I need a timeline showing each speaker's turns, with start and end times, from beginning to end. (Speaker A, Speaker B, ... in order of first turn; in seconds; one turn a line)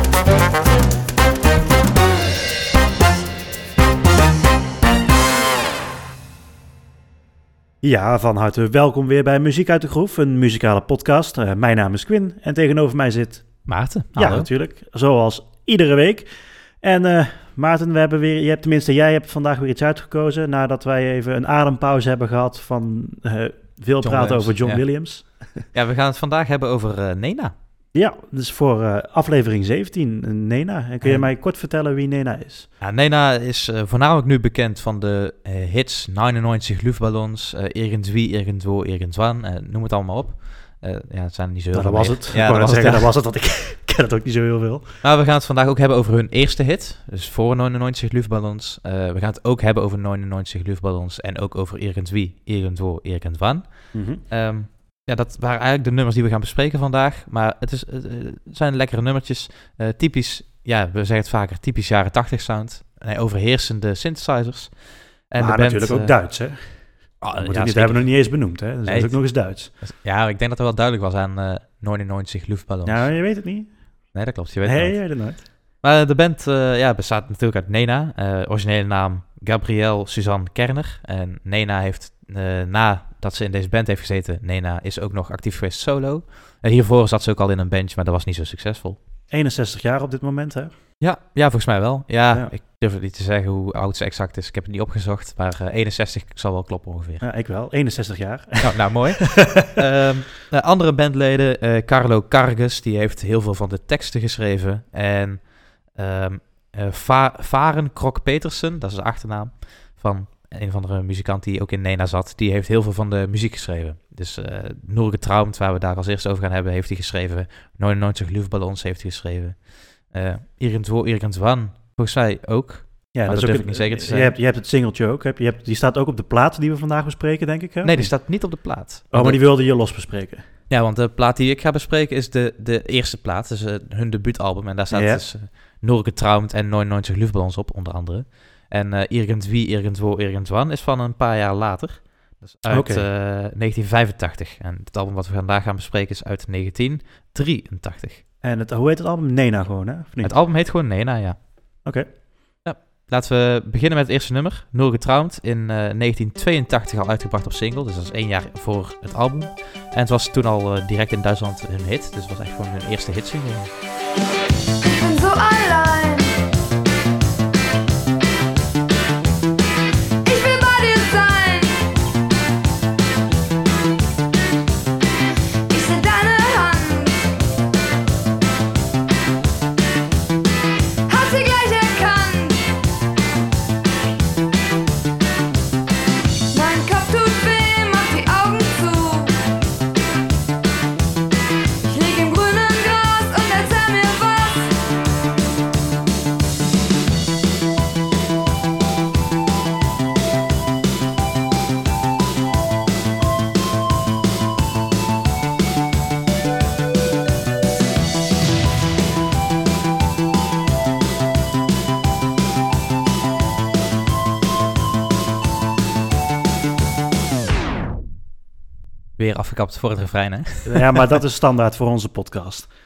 Speaker A: 7.8-25.6
Speaker B: 13.7-14.5
Speaker B: 24.0-27.5
Speaker A: 27.9-32.7
Speaker B: 31.0-31.3
Speaker B: 32.8-43.1
Speaker A: 41.7-45.0
Speaker B: 45.0-66.2
Speaker A: 53.9-54.2
Speaker A: 65.4-69.7
Speaker B: 67.2-73.4
Speaker A: 72.8-75.4
Speaker B: 74.1-89.0
Speaker A: 89.3-90.7
Speaker B: 91.0-97.3
Speaker A: 92.3-92.6
Speaker A: 97.2-99.7
Speaker B: 98.6-124.4
Speaker A: 123.1-130.4
Speaker B: 127.8-129.5
Speaker B: 130.7-148.2
Speaker A: 134.9-135.2
Speaker A: 142.7-143.1
Speaker A: 148.4-150.4
Speaker B: 150.2-151.4
Speaker A: 151.8-152.1
Speaker B: 152.7-163.7
Speaker C: 164.8-166.3
Speaker C: 170.2-171.8
Speaker C: 175.7-177.3
Speaker C: 181.1-182.6
Speaker C: 186.5-189.3
Speaker C: 191.8-194.8
Speaker B: 219.2-221.0
Speaker A: 220.6-222.7